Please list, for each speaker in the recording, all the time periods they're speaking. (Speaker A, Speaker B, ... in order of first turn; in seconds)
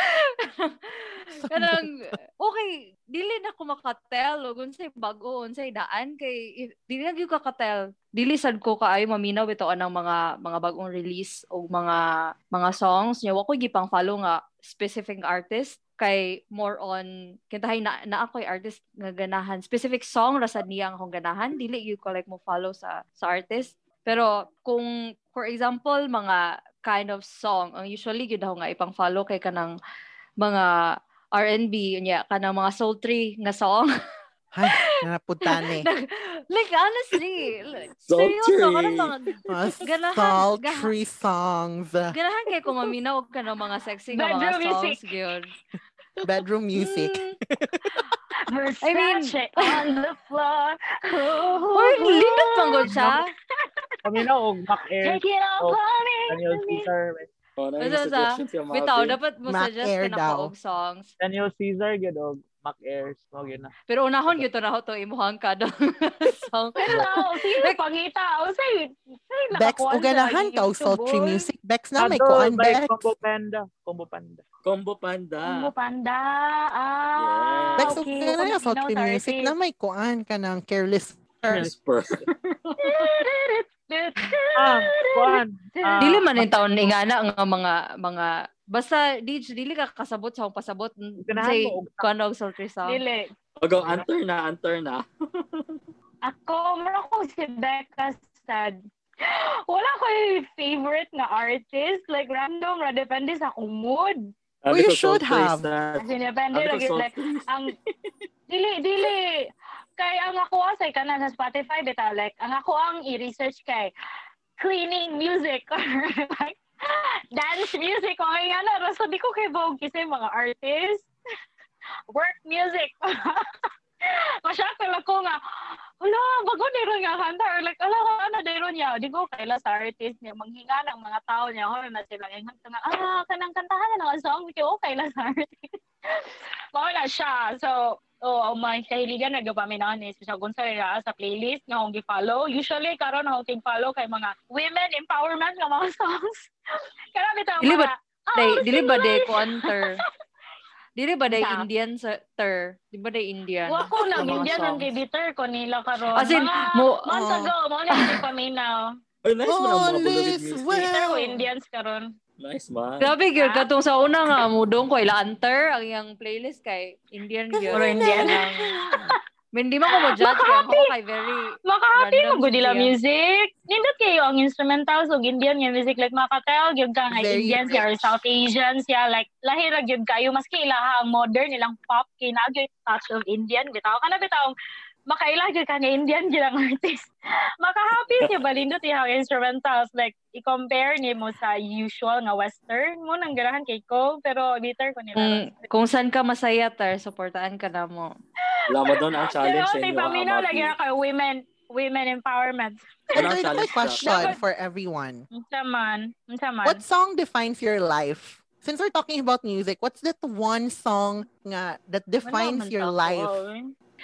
Speaker A: 0.2-12.0, 12.5-29.7, 30.4-30.7, 31.3-33.9, 35.5-40.9, 42.1-45.5, 46.8-47.4, 48.8-49.8, 51.7-53.3, 57.8-61.1, 63.9-67.7, 86.0-93.0, 147.6-150.0, 150.9-154.9, 156.2-157.0, 163.0-168.7, 169.5-172.9, 195.2-198.1
Speaker B: 1.4-2.1, 34.5-35.9, 39.5-42.1, 46.2-47.9, 59.5-60.5, 69.5-73.1, 77.8-81.7, 104.7-105.7, 157.1-157.5, 159.5-161.5, 167.6-169.2, 177.1-178.2, 203.1-205.2, 206.6-213.4
Speaker C: 38.1-39.1, 57.6-59.2, 74.6-75.7, 77.2-78.0, 81.5-83.1, 93.6-95.8, 104.6-107.7, 159.2-160.9, 162.4-163.1, 198.7-200.7, 203.1-204.2
Speaker D: 44.1-45.0, 48.5-54.2, 55.0-56.9, 66.8-71.4, 75.4-79.5, 82.8-86.2, 92.8-93.3, 96.2-104.3, 106.0-107.7, 108.5-113.9, 114.6-121.1, 122.1-123.5, 124.0-125.4, 126.0-135.5, 136.1-146.5, 147.1-149.8, 151.3-151.7, 153.7-158.8, 160.8-162.1, 163.4-163.7, 167.7-168.4, 170.2-170.9, 171.7-184.5, 185.1-187.1, 187.6-195.7, 198.5-203.3, 204.0-204.4, 205.3-206.8, 212.2-213.7
Speaker E: 54.0-57.3, 61.2-63.7, 72.0-74.4, 84.5-86.5, 91.2-92.1, 93.7-94.0